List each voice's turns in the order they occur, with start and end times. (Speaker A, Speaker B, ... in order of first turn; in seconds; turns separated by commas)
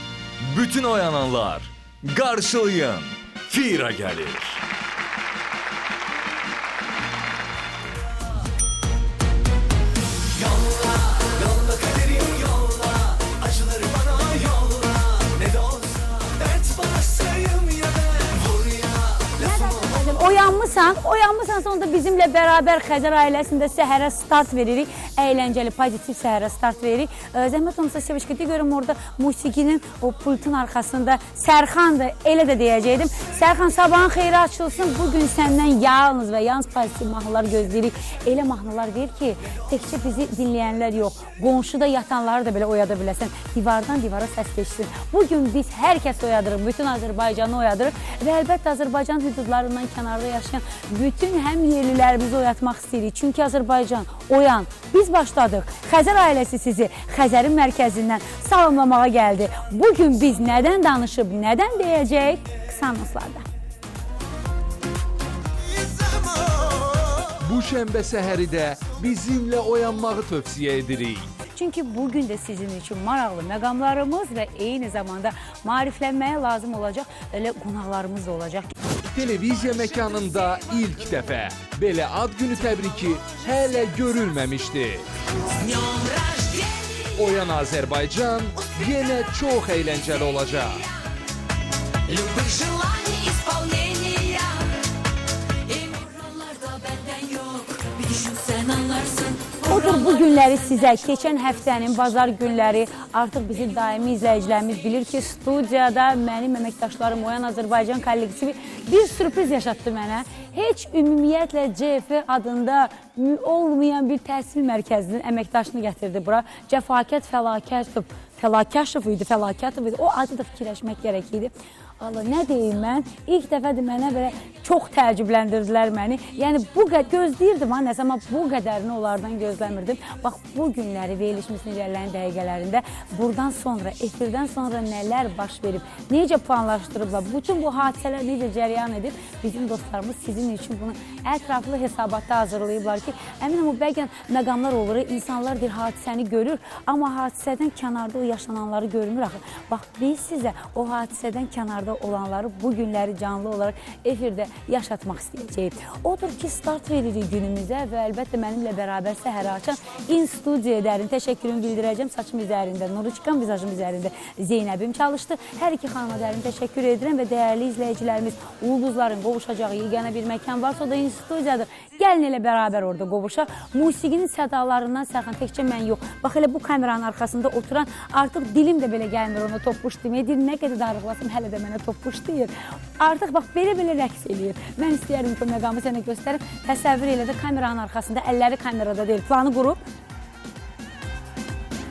Speaker A: 0.4-4.6, Speaker B: 19.4-63.5, Speaker C: 67.4-71.3, Speaker B: 71.5-78.7, Speaker C: 79.1-85.0, Speaker D: 85.8-87.0, Speaker C: 87.2-90.8, Speaker D: 92.1-94.7, Speaker D: 95.7-100.2, Speaker B: 99.7-189.8